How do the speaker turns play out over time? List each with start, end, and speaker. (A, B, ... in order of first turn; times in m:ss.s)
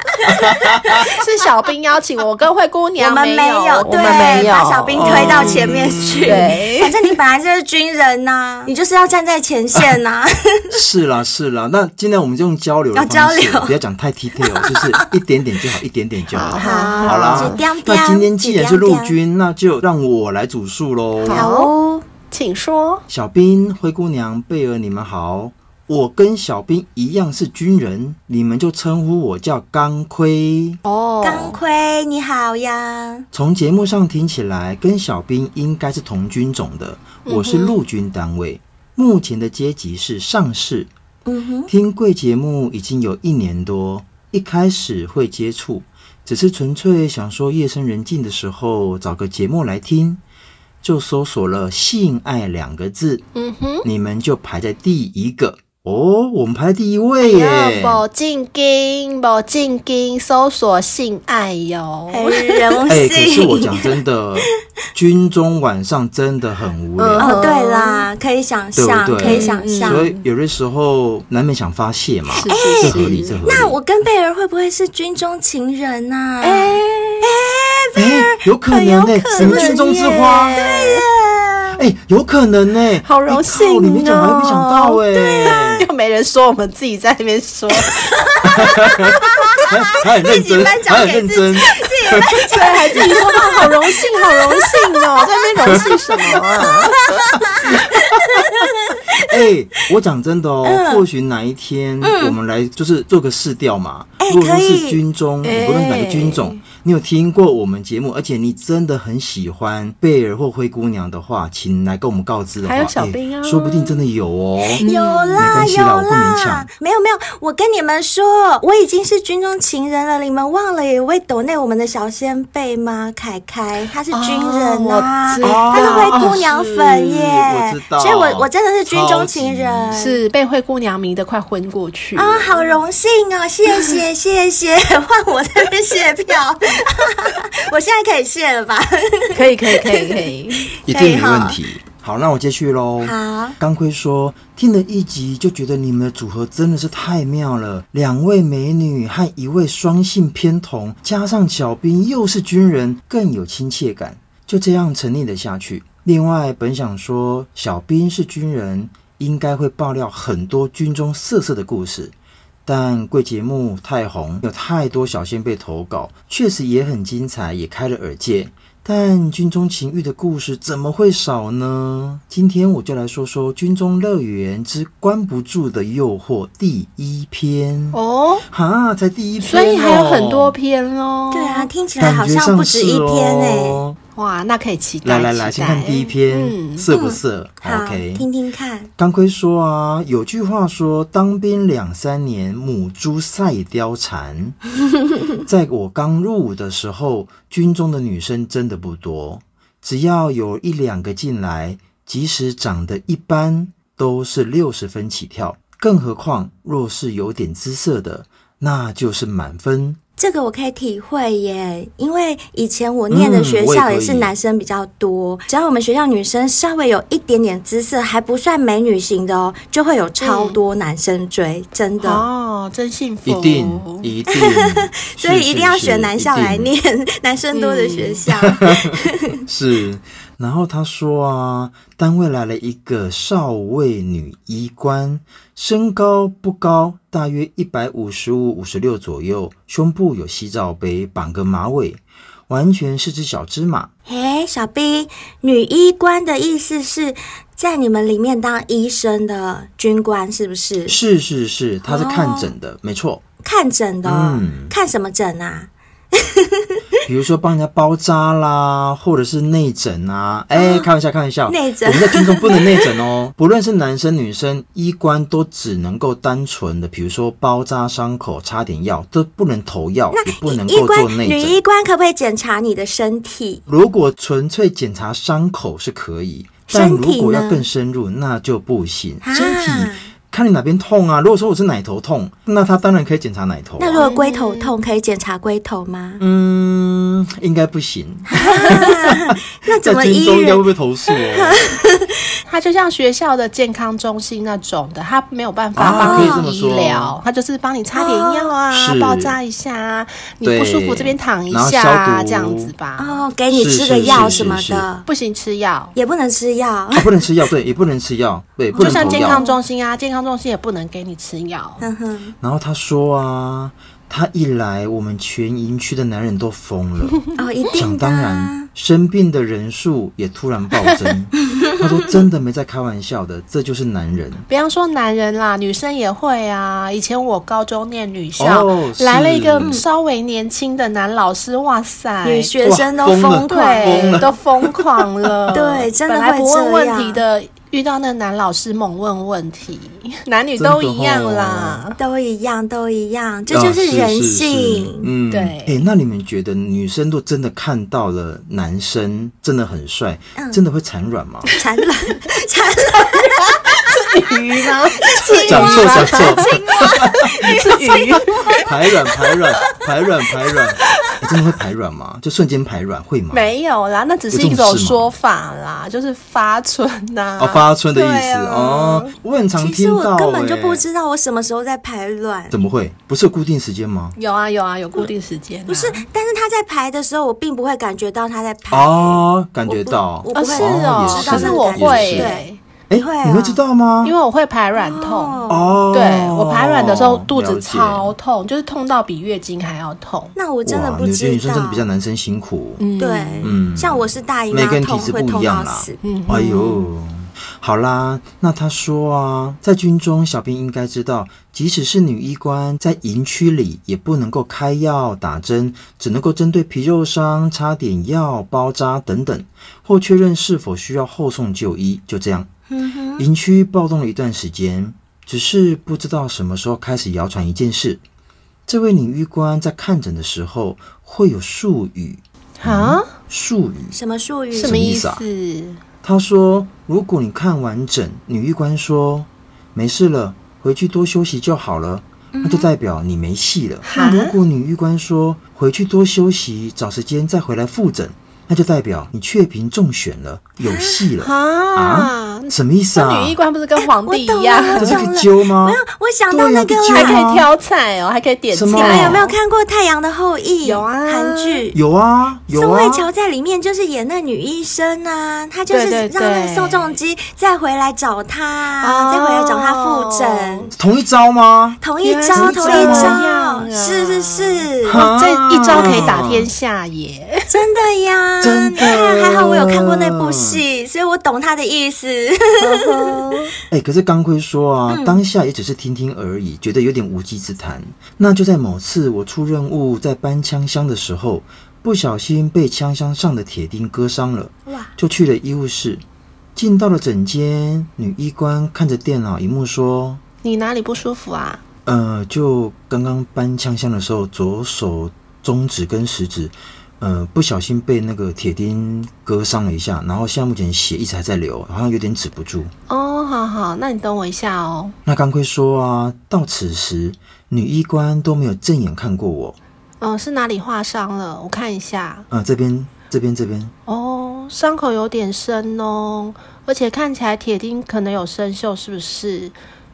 0:00.2-0:01.1 A
0:00.2-0:01.1 B
0:01.1-0:07.1 C
0:03.0-0:10.7 A
0:04.9-0:06.5 B
0:10.7-0:21.5 B
0:12.9-0:13.8 A
0:14.4-0:15.1 A
0:16.3-0:17.6 C
0:16.6-0:19.1 A
0:21.2-0:21.7 C
0:21.3-0:22.0 A
0:22.3-0:23.0 C
0:23.1-0:30.8 B
0:30.8-0:31.6 C
0:31.2-0:33.3 A
0:33.3-0:40.9 B
0:37.2-0:37.8 C
0:41.2-0:41.7 A
0:41.7-0:50.2 B
0:50.8-0:53.2 B
0:53.3-0:53.9 C
0:53.8-0:58.0 B
0:57.2-1:02.7 C
1:02.1-1:03.9 A
1:02.9-1:07.4 B
1:07.0-1:08.1 C
1:07.2-1:10.0 A
1:08.8-1:13.8 B
1:09.2-1:10.2 C
1:12.3-1:13.4 C
1:12.5-1:19.8 A
1:16.4-1:17.2 C
1:17.9-1:20.5 B
1:19.3-1:21.0 C
1:20.5-1:21.8 A
1:21.8-1:25.9 B
1:23.0-1:28.3 C
1:27.9-1:35.5 A
1:28.4-1:29.1 B
1:29.7-1:32.2 B
1:32.5-1:37.0 C
1:35.7-1:36.4 B
1:36.3-1:39.3 A
1:38.4-1:38.6 B
1:39.1-1:54.8 B
1:40.6-1:41.0 A
1:42.0-1:42.4 A
1:44.2-1:45.0 A
1:45.4-1:46.6 C
1:52.6-1:54.0 C
1:54.8-1:55.6 C
1:54.8-2:10.2 A
1:55.4-1:56.7 B
2:04.1-2:07.0 C
2:05.4-2:06.4 B
2:07.1-2:10.0 B
2:09.9-2:12.7 C
2:12.1-2:21.6 A
2:19.3-2:20.7 C
2:20.8-2:42.1 B
2:23.0-2:23.6 A
2:42.6-2:58.0 B
2:57.9-2:58.4 C
2:58.5-3:00.6 B
2:59.4-3:01.7 C
3:01.3-3:03.8 A
3:02.0-3:04.0 B
3:04.2-3:06.9 C
3:05.0-3:08.2 B
3:06.9-3:08.9 A
3:09.0-3:14.6 B
3:15.4-3:30.0 B
3:30.2-3:42.3 A
3:33.1-3:34.3 B
3:40.2-3:40.6 C
3:42.0-3:44.1 C
3:43.2-3:46.7 B
3:44.3-3:49.4 A
3:47.5-3:48.2 C
3:48.4-4:03.9 B
4:04.0-4:11.0 A
4:10.9-4:13.2 B
4:11.8-4:12.5 A
4:13.4-4:16.6 A
4:14.0-4:14.7 B
4:17.0-4:31.6 B
4:20.5-4:20.9 A
4:21.5-4:22.8 A
4:30.1-4:33.6 A
4:33.7-4:44.1 B
4:36.7-4:37.6 A
4:39.2-4:40.1 A
4:43.8-4:46.2 A
4:44.0-4:44.7 C
4:46.2-4:51.6 B
4:48.3-4:52.1 A
4:52.4-5:03.2 C
4:55.8-4:57.2 B
4:55.8-4:56.4 A
4:57.9-4:58.5 A
4:58.7-4:59.4 B
5:00.4-5:02.7 B
5:03.0-5:05.0 A
5:03.5-5:04.8 B
5:04.1-5:04.4 C
5:05.0-5:05.9 C
5:05.9-5:07.1 A
5:06.9-5:09.4 B
5:08.7-5:09.6 A
5:08.8-5:11.8 C
5:11.8-5:12.3 A
5:12.4-5:17.2 B
5:17.4-5:18.7 A
5:17.8-5:24.4 B
5:21.5-5:22.0 A
5:24.5-5:32.5 C
5:28.4-5:29.7 B
5:29.6-5:29.8 A
5:32.2-5:34.3 A
5:32.6-5:35.3 B
5:33.5-5:42.0 C
5:35.5-5:37.2 A
5:40.6-5:41.8 B
5:42.0-5:45.1 A
5:43.5-5:51.5 B
5:45.3-5:45.8 C
5:50.4-5:50.6 A
5:51.5-5:53.6 A
5:53.8-5:56.8 C
5:55.0-5:58.6 A
5:55.2-5:57.5 B
5:57.4-5:58.5 C
5:58.5-6:03.5 B
6:03.3-6:07.6 C
6:04.3-6:05.1 B
6:07.4-6:10.8 B
6:08.0-6:08.7 A
6:09.6-6:12.5 A
6:12.5-6:14.1 B
6:14.2-6:16.0 C
6:15.7-6:23.6 A
6:18.7-6:22.4 B
6:20.3-6:22.6 C
6:22.9-6:24.2 B
6:24.0-6:30.3 C
6:24.8-6:25.7 A
6:25.5-6:28.1 B
6:30.3-6:31.8 A
6:30.6-6:32.8 B
6:32.8-6:33.5 C
6:33.0-6:36.0 A
6:33.4-6:52.5 B
6:36.0-6:36.8 C
6:52.7-6:53.2 A
6:53.2-6:58.0 B
6:58.7-7:04.0 B
7:02.6-7:03.1 C
7:03.9-7:04.8 A
7:04.5-7:05.8 C
7:04.6-7:05.2 B
7:06.0-7:23.4 B
7:12.3-7:12.7 A
7:13.9-7:14.4 C
7:20.6-7:21.1 A
7:21.2-7:25.0 C
7:23.8-7:27.2 A
7:24.8-7:27.5 B
7:26.9-7:29.4 C
7:28.5-7:29.2 B
7:28.7-7:31.8 A
7:30.6-7:31.6 C
7:31.7-7:33.1 B
7:32.5-7:40.7 A
7:35.7-7:37.0 C
7:38.8-7:40.7 C
7:40.7-7:43.2 B
7:41.8-7:45.0 A
7:42.0-7:47.5 C
7:44.8-7:46.5 B
7:45.7-7:46.2 A
7:47.5-7:53.2 A
7:48.4-7:50.6 B
7:52.6-7:53.5 C
7:53.7-8:06.0 B
7:54.9-7:55.2 A
8:06.6-8:10.2 B
8:10.4-8:11.6 C
8:11.8-8:22.7 B
8:22.9-8:24.9 C
8:25.0-8:29.6 B
8:30.0-8:32.3 C
8:32.3-8:33.7 B
8:33.9-8:39.5 C